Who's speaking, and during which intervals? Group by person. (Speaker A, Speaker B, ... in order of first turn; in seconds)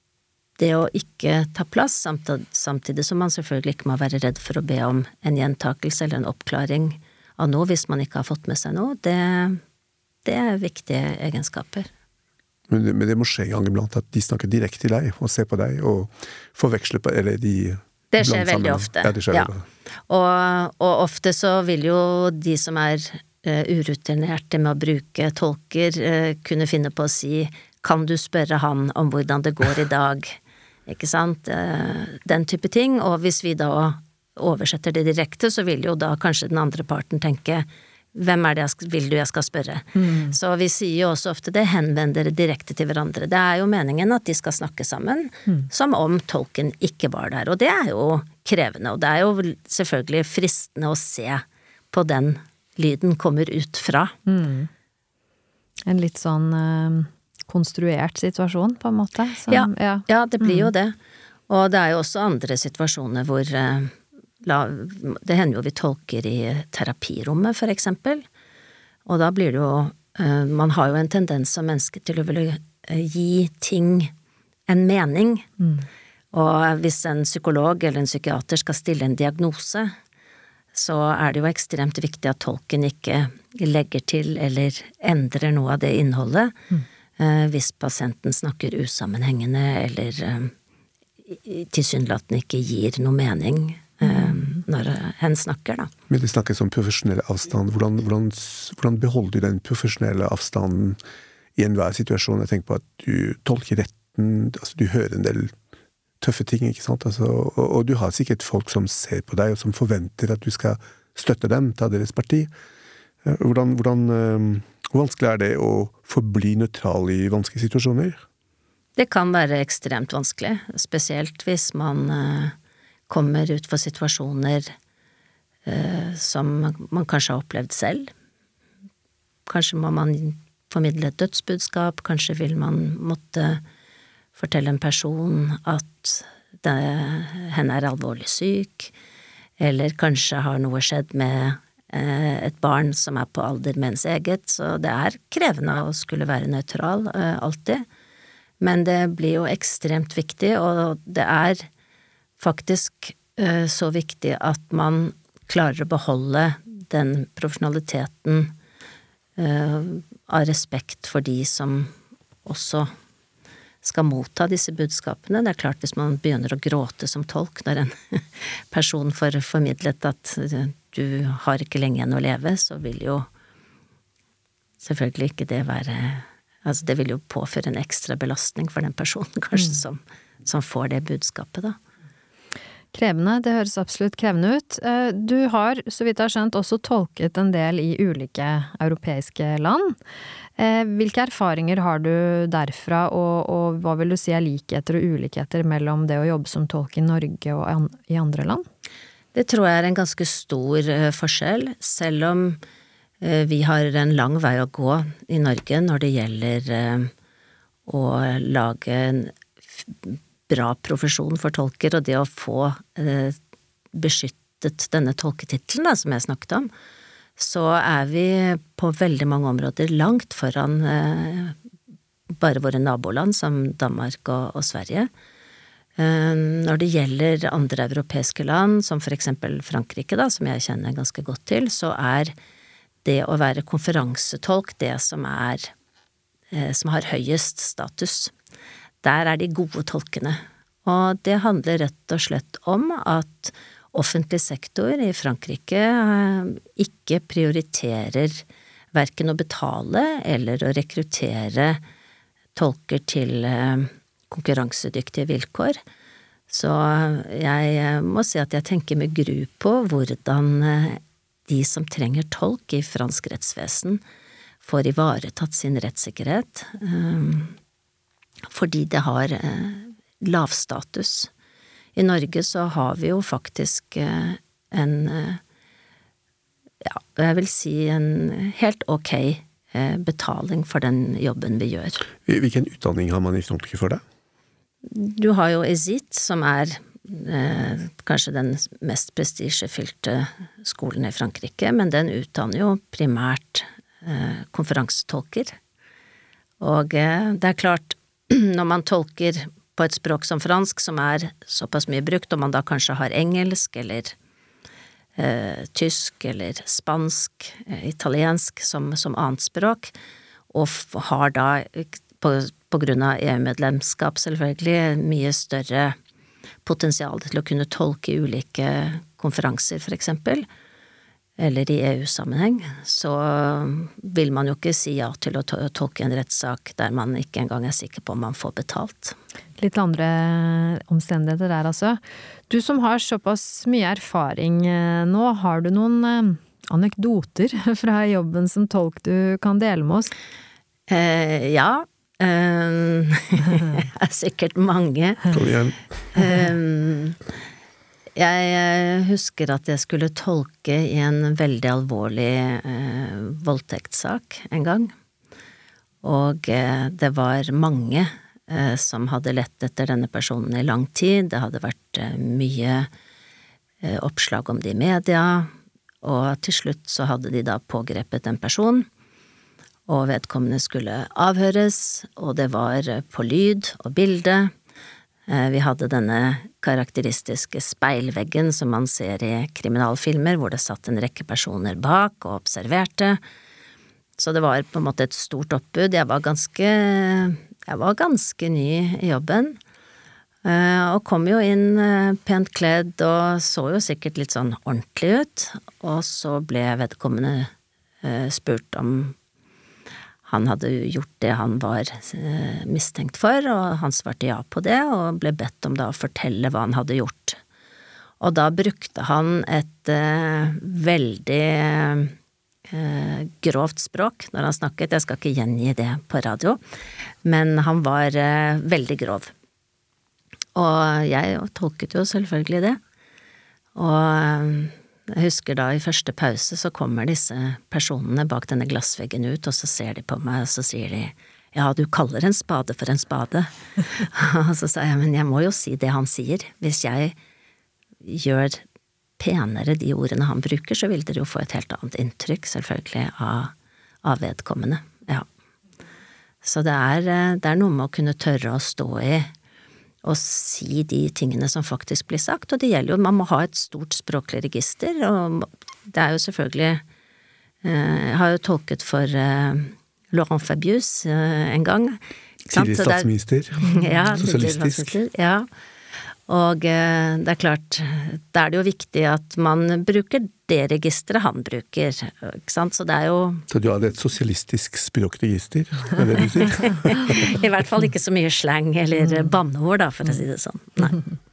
Speaker A: 0.6-9.6, 10.2-11.9, 18.1-19.5, 20.1-54.2, 59.5-60.9, 61.5-68.2, 69.0-74.1, 74.7-75.5, 76.3-79.9, 80.7-86.5, 87.2-90.5, 91.2-95.9, 119.0-122.5, 123.1-124.7, 125.6-128.1, 129.4-133.6, 134.3-138.9, 139.6-147.8, 148.6-151.7, 152.4-158.5, 159.4-161.9, 162.4-162.9, 163.8-173.3, 174.8-181.8, 199.3-202.6, 203.2-207.1, 207.9-213.4, 213.9-216.7, 217.4-221.6, 222.3-225.1, 226.0-232.3, 233.0-235.7, 236.5-238.3, 239.0-251.8, 252.5-255.8, 256.5-264.0, 264.6-267.6, 268.5-271.3, 271.9-275.4, 276.8-282.0, 284.8-295.6, 296.6-304.1, 305.1-309.9, 310.5-315.9, 316.6-320.4, 321.4-329.1, 340.9-345.4, 346.1-347.2, 348.1-354.9, 356.0-362.9, 363.8-365.5, 366.0-368.9, 369.9-374.5, 375.3-383.2, 384.2-389.6, 390.4-397.5, 398.0-399.1, 400.2-407.4, 408.2-412.1, 412.7-416.6, 417.2-419.3, 420.5-422.8, 423.7-437.1, 438.0-438.6, 439.2-445.2, 446.4-449.3, 450.0-456.8, 457.6-462.0, 462.5-463.1, 463.6-465.5, 466.3-473.4, 476.6-481.0
Speaker B: 12.7-19.6, 96.1-101.0, 101.5-105.5, 106.2-112.5, 113.2-118.2, 282.2-284.0, 345.3-345.8, 462.5-464.9, 473.5-477.3
Speaker C: 40.0-40.3, 54.2-54.7, 55.9-60.7, 182.9-189.9, 190.6-198.6, 329.6-340.1